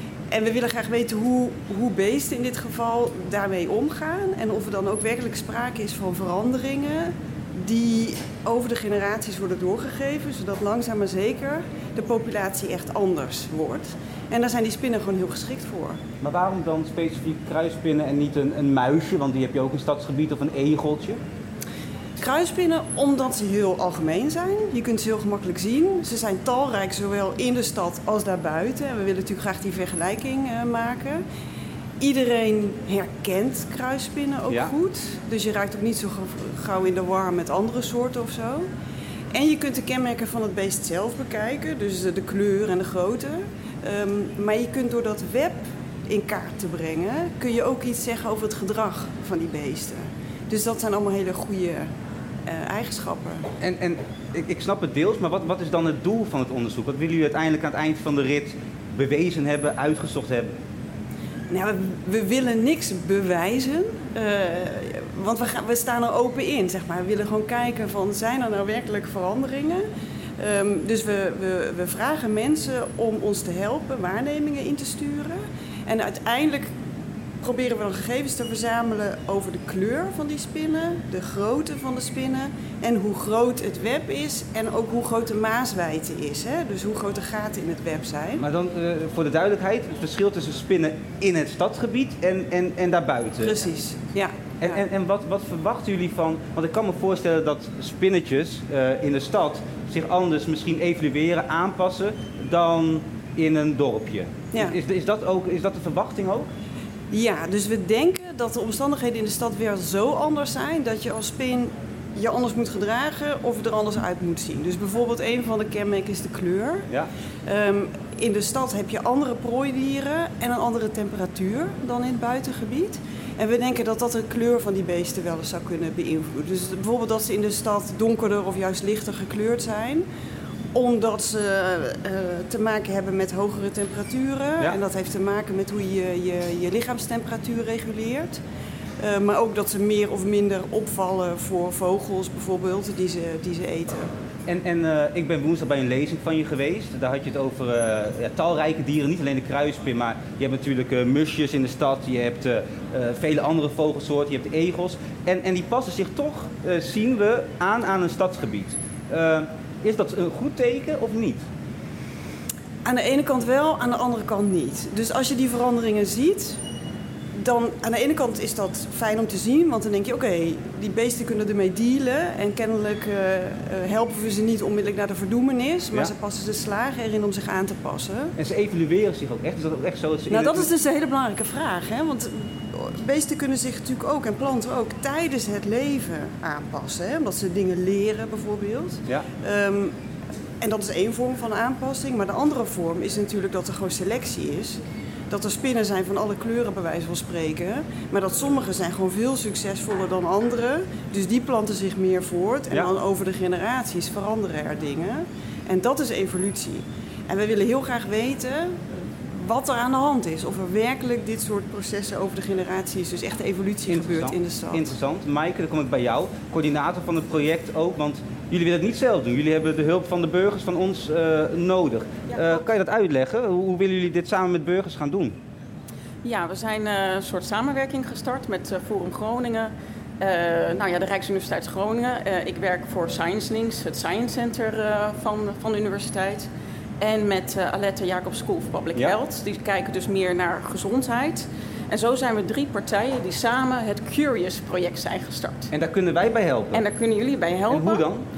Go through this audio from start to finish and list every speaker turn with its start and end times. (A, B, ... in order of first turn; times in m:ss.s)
0:00.3-0:16.0 A
0:16.2-0:21.2 B
0:22.2-0:31.2 A
0:32.0-0:38.7 A
0:39.3-0:51.9 A
0:52.5-0:53.5 A
0:53.6-1:00.5 B
1:01.5-1:09.8 A
1:10.4-1:16.7 A
1:17.4-1:28.4 A
1:28.4-1:33.6 B
1:33.4-1:34.8 A
1:34.6-1:46.5 B
1:47.1-1:56.9 A
1:57.5-2:10.0 A
2:10.7-2:18.4 A
2:19.0-2:24.1 A
2:24.5-2:41.4 B
2:42.8-2:46.6 A
2:47.4-2:58.3 A
2:58.4-3:00.7 B
3:00.3-3:09.9 A
3:10.6-3:34.9 A
3:33.9-3:45.4 B
3:42.3-3:42.6 C
3:46.2-4:05.7 C
4:05.7-4:06.8 B
4:06.7-4:08.1 C
4:07.7-4:08.2 B